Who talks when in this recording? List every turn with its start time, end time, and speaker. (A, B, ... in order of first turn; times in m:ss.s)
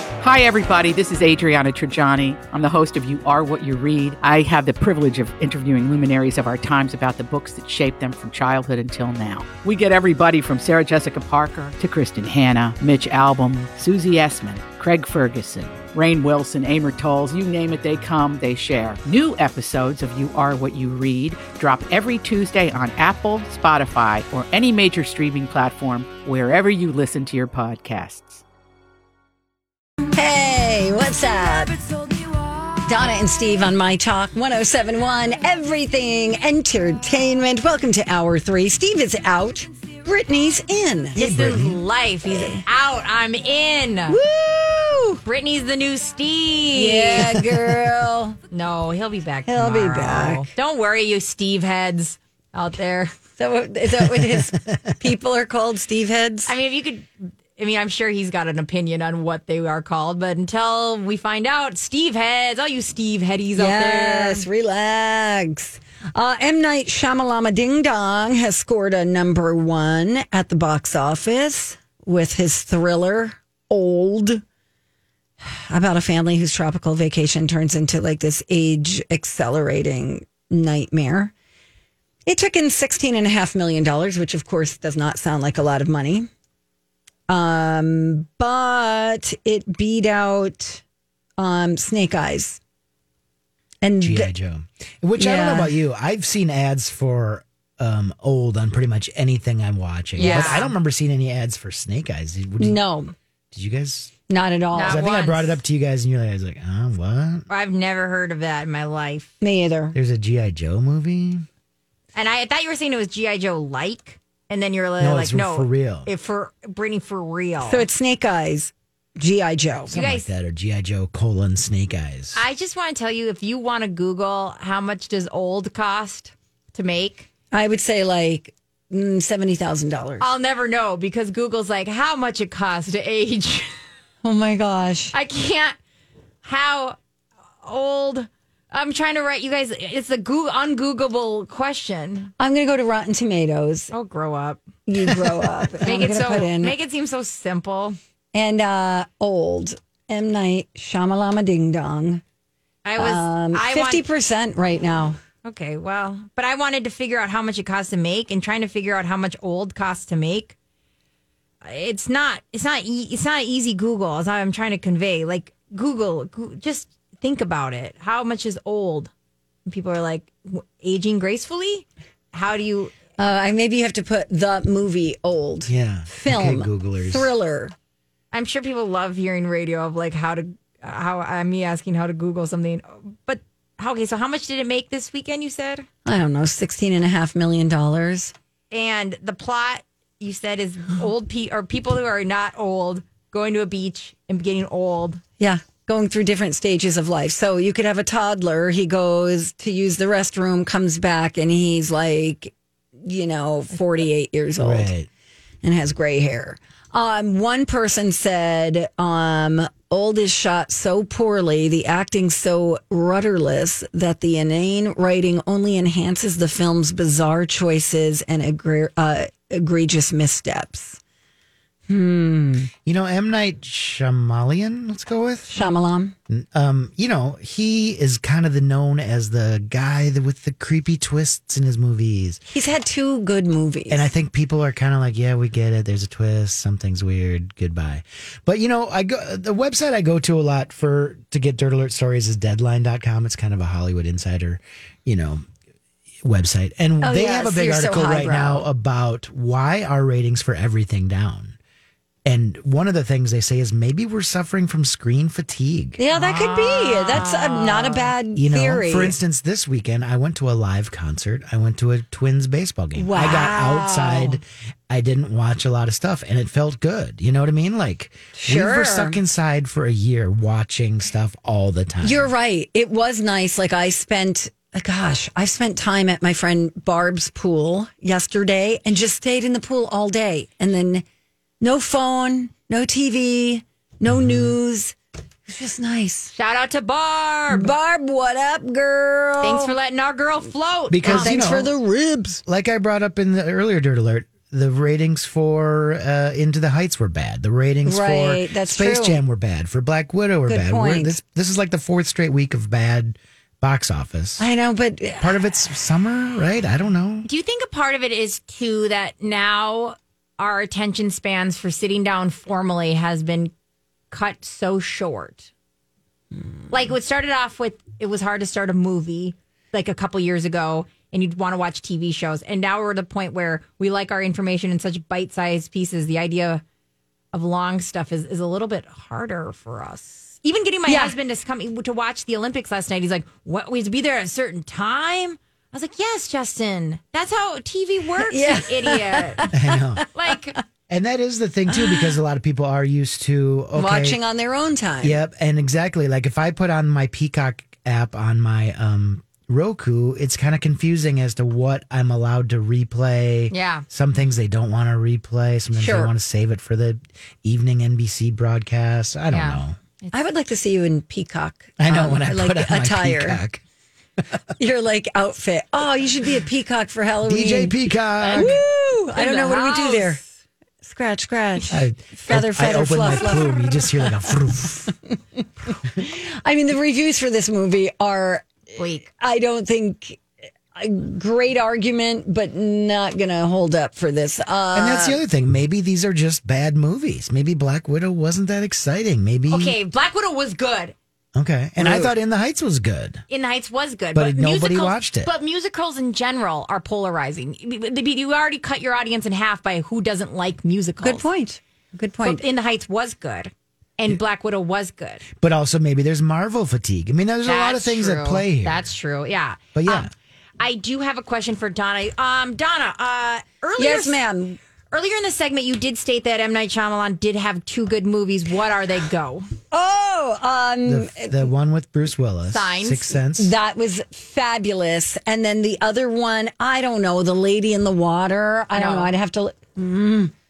0:00.2-0:28.4 A
0:30.1-0:31.8 B
0:32.8-0:41.2 B
0:41.2-0:41.8 C
0:41.2-0:44.2 D
0:42.3-0:42.6 B
0:44.1-0:45.2 B
0:45.2-0:47.4 D
0:46.7-0:48.4 B
0:48.5-0:53.2 D
0:49.5-0:50.5 B
0:53.4-0:56.6 B
0:54.0-0:54.8 C
0:56.5-1:04.5 D
1:03.6-1:14.4 B
1:15.4-1:21.3 B
1:22.3-1:26.3 B
1:27.3-1:30.8 B
1:31.4-1:32.6 B
1:33.8-1:34.3 B
1:34.0-1:42.8 C
1:35.2-1:35.8 B
1:40.2-1:40.7 D
1:40.2-1:40.7 B
1:42.6-1:43.1 B
1:43.5-1:44.2 C
1:44.3-1:45.1 B
1:44.7-1:45.6 D
1:44.8-1:47.5 C
1:47.5-1:49.3 D
1:49.4-1:50.0 B
1:49.9-1:51.5 C
1:52.1-1:57.9 D
1:55.0-1:56.1 C
1:57.6-2:00.0 B
1:59.9-2:00.2 D
1:59.9-2:02.4 C
2:02.3-2:07.3 D
2:07.5-2:10.3 B
2:10.2-2:13.7 D
2:14.2-2:15.1 B
2:15.1-2:15.8 D
2:16.4-2:17.0 D
2:17.6-2:22.3 D
2:22.4-2:23.9 B
2:23.9-2:24.6 D
2:24.9-2:26.8 B
2:25.8-2:28.0 D
2:28.3-2:32.2 B
2:32.8-2:34.0 D
2:33.0-2:35.2 B
2:35.4-2:40.6 D
2:41.6-2:49.1 D
2:49.7-2:52.9 D
2:53.2-2:57.7 B
2:55.7-2:57.3 C
2:58.3-3:05.9 D
3:06.0-3:08.3 B
3:08.7-3:15.2 D
3:15.4-3:24.9 B
3:24.6-3:25.1 C
3:25.6-3:41.0 B
3:41.9-3:42.7 B
3:42.8-3:45.5 C
3:45.5-3:46.2 B
3:46.3-3:52.4 C
3:52.5-3:54.1 B
3:53.9-4:05.4 C
4:06.2-4:11.6 C
4:07.0-4:08.7 B
4:12.2-4:16.0 C
4:16.0-4:19.2 B
4:16.1-4:18.1 D
4:18.4-4:32.3 C
4:23.0-4:24.4 B
4:28.3-4:29.2 B
4:32.0-4:41.0 B
4:41.6-4:45.0 B
4:44.1-4:44.5 C
4:45.5-4:46.3 B
4:46.3-4:47.8 D
4:47.5-4:49.7 B
4:49.4-4:51.4 D
4:50.9-4:51.7 C
4:51.0-4:52.4 B
4:52.5-5:04.5 C
4:57.8-4:59.2 B
5:00.5-5:01.2 B
5:04.4-5:05.4 B
5:05.2-5:07.3 C
5:07.2-5:13.5 D
5:14.1-5:15.5 D
5:16.7-5:26.6 D
5:27.3-5:39.5 D
5:30.9-5:31.2 B
5:38.2-5:40.2 B
5:39.5-5:40.1 C
5:40.1-5:40.6 D
5:40.9-5:44.2 C
5:41.7-5:42.2 B
5:43.8-5:45.2 B
5:45.0-5:59.8 C
5:53.5-5:53.8 D
5:55.8-5:56.1 D
5:59.3-6:00.2 D
6:00.1-6:03.4 B
6:01.8-6:03.6 C
6:04.6-6:10.2 B
6:07.3-6:08.6 C
6:08.2-6:08.5 D
6:09.2-6:10.3 D
6:10.8-6:14.9 B
6:11.7-6:14.9 C
6:16.0-6:18.5 B
6:18.8-6:19.1 D
6:19.1-6:20.2 B
6:20.7-6:25.2 B
6:24.7-6:29.8 C
6:29.5-6:31.0 D
6:31.4-6:33.2 C
6:31.8-6:32.1 B
6:33.3-6:41.3 D
6:34.2-6:35.3 C
6:41.0-6:42.4 B
6:42.2-6:45.2 D
6:45.4-6:48.9 C
6:47.4-6:50.1 D
6:49.8-6:50.1 C
6:50.6-6:54.2 D
6:53.8-6:54.6 B
6:54.9-6:59.5 D
6:59.7-7:01.5 B
7:00.9-7:03.5 C
7:02.5-7:03.2 D
7:03.4-7:10.3 B
7:08.8-7:09.1 D